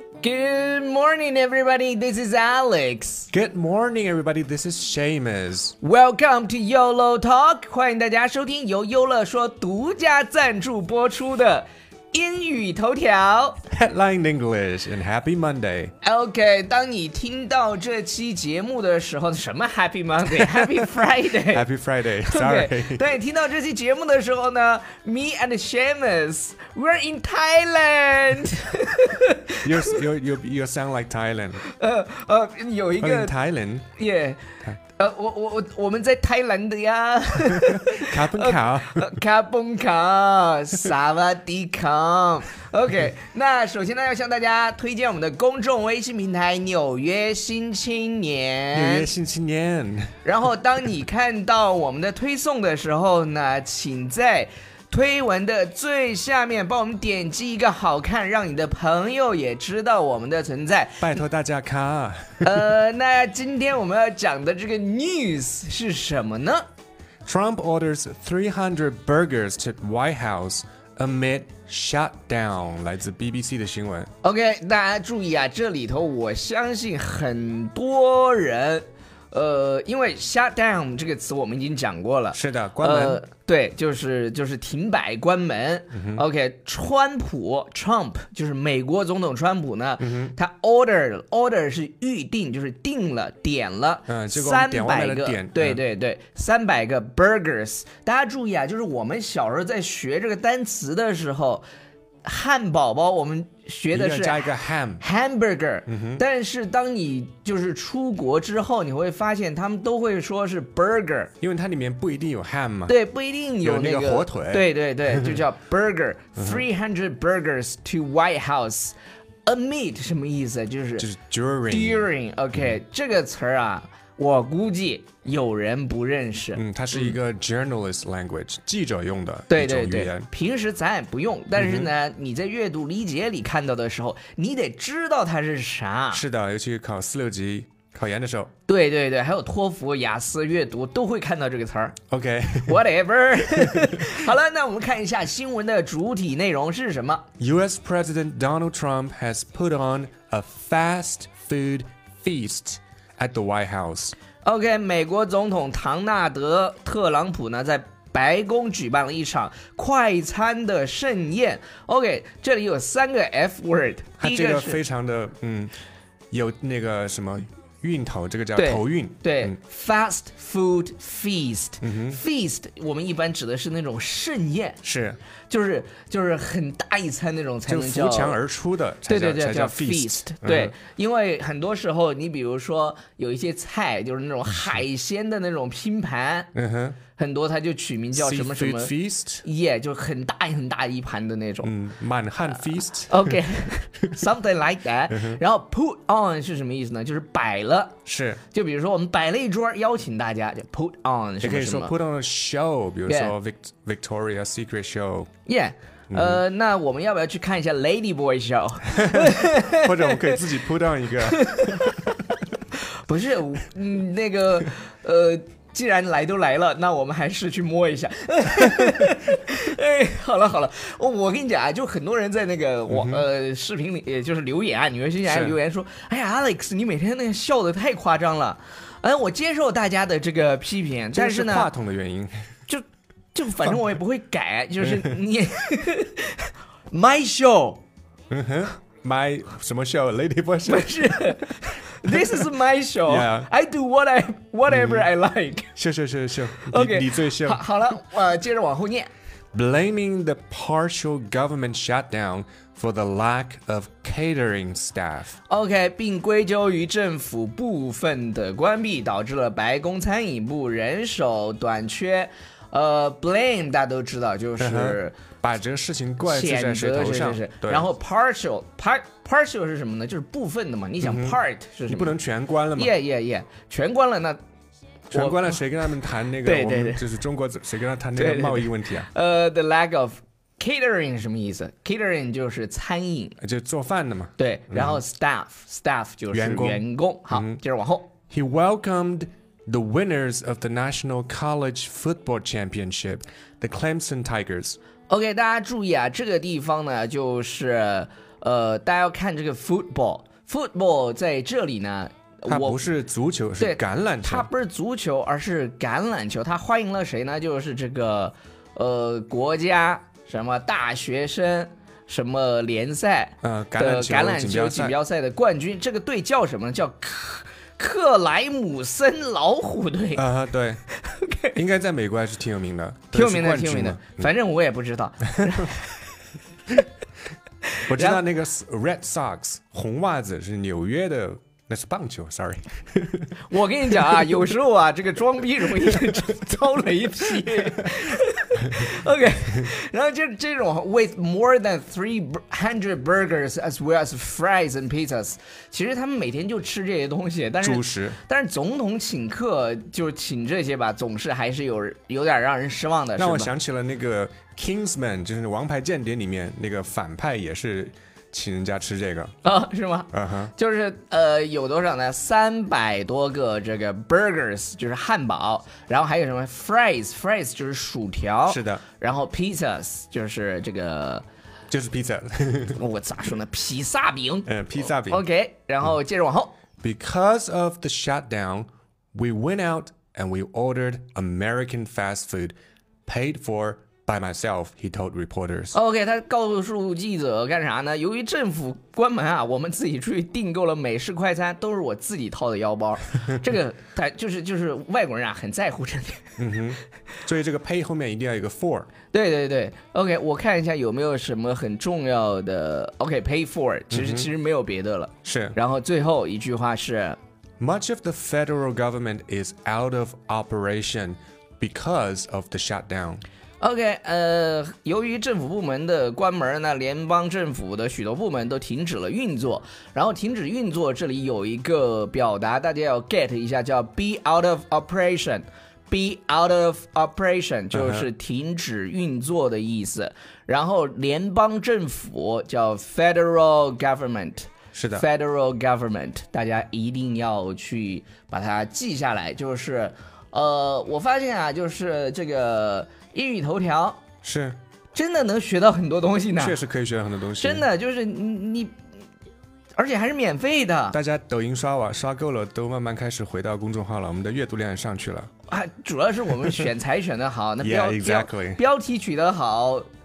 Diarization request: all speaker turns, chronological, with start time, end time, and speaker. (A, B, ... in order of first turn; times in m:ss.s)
0:00.2-0:03.3 A
0:03.3-0:05.8 B
0:05.8-0:13.6 A
0:13.7-0:15.9 B
0:16.0-0:21.7 A
0:21.4-0:23.1 B
0:22.2-0:30.0 A
0:29.6-0:31.6 B
0:31.6-0:33.3 A
0:33.0-0:33.9 B
0:34.0-0:34.4 A
0:35.0-0:49.1 A
0:37.7-0:39.1 B
0:48.7-0:50.1 B
0:50.2-1:01.2 A
1:01.0-1:02.7 B
1:02.4-1:06.6 A
1:07.3-1:14.1 B
1:14.2-1:41.6 A
1:22.3-1:23.2 B
1:25.9-1:26.2 B
1:30.0-1:30.4 B
1:34.1-1:35.8 B
1:42.2-1:51.3 A
1:43.9-1:45.0 B
1:45.9-1:46.2 B
1:51.4-1:53.0 B
1:52.9-2:01.1 A
1:53.6-1:55.4 B
2:01.0-2:02.1 B
2:01.7-2:07.2 A
2:06.6-2:10.3 B
2:09.5-2:16.2 A
2:11.6-2:11.9 B
2:16.1-2:18.5 B
2:18.7-2:22.0 A
2:22.1-2:22.8 B
2:22.6-2:27.2 A
2:23.5-2:24.2 B
2:27.4-2:34.2 B
2:34.4-2:44.8 A
2:44.2-2:45.7 B
2:46.3-2:49.6 B
2:48.6-2:54.8 A
2:51.8-2:52.2 B
2:54.8-2:55.2 B
2:55.5-2:58.4 A
2:57.7-3:00.7 B
2:59.1-3:06.5 A
3:06.5-3:07.0 B
3:07.2-3:11.7 A
3:08.1-3:09.4 B
3:11.6-3:13.4 B
3:13.1-3:18.0 A
3:15.1-3:15.4 B
3:18.1-3:18.4 B
3:18.5-3:22.0 A
3:21.4-3:25.3 B
3:23.1-3:23.3 A
3:25.5-3:30.4 A
3:26.1-3:26.4 B
3:29.0-3:32.2 B
3:31.2-3:32.1 A
3:32.7-3:51.7 A
3:42.9-3:43.2 B
3:45.2-3:45.6 B
3:51.1-3:52.4 B
3:52.7-3:57.8 A
3:54.8-3:55.2 B
3:58.3-4:01.3 B
4:00.7-4:05.7 A
4:02.0-4:02.5 B
4:03.0-4:03.5 B
4:04.7-4:05.1 B
4:05.8-4:07.6 B
4:06.7-4:09.1 A
4:09.5-4:15.4 B
4:15.5-4:25.2 A
4:24.6-4:27.9 B
4:26.2-4:32.2 A
4:31.0-4:33.0 B
4:32.7-4:34.4 A
4:35.1-4:39.1 B
4:35.1-4:35.6 A
4:36.4-4:37.0 A
4:38.2-4:43.4 A
4:43.4-4:45.0 B
4:44.4-4:48.1 A
4:46.3-4:47.6 B
4:48.3-4:54.8 B
4:55.1-5:02.9 A
5:02.5-5:04.5 B
5:03.6-5:20.2 A
5:13.4-5:14.9 B
5:20.2-5:20.8 B
5:20.9-5:21.6 A
5:21.6-5:24.3 B
5:23.1-5:26.0 A
5:25.3-5:25.6 B
5:27.8-5:28.2 A
5:27.9-5:33.4 B
5:33.4-5:53.5 A
5:47.6-5:48.2 B
5:53.2-5:59.3 B
5:59.4-6:11.2 A
6:00.1-6:00.5 B
6:08.5-6:08.8 B
6:11.7-6:12.8 B
6:12.8-6:16.6 A
6:14.5-6:15.2 B
6:16.8-6:22.6 B
6:23.1-6:25.8 B
6:25.7-6:36.4 A
6:36.4-6:38.9 B
6:39.1-6:47.2 A
6:43.9-6:44.3 B
6:45.2-6:45.6 B
6:47.6-6:53.2 B
6:53.6-7:24.0 A
7:07.7-7:08.1 B
7:14.7-7:15.0 B
7:24.2-7:24.6 B
7:24.9-7:26.6 A
7:26.4-7:27.7 B
7:27.4-7:28.8 A
7:29.8-7:31.0 A
7:30.9-7:35.3 B
7:35.5-7:39.9 A
7:37.6-7:38.6 B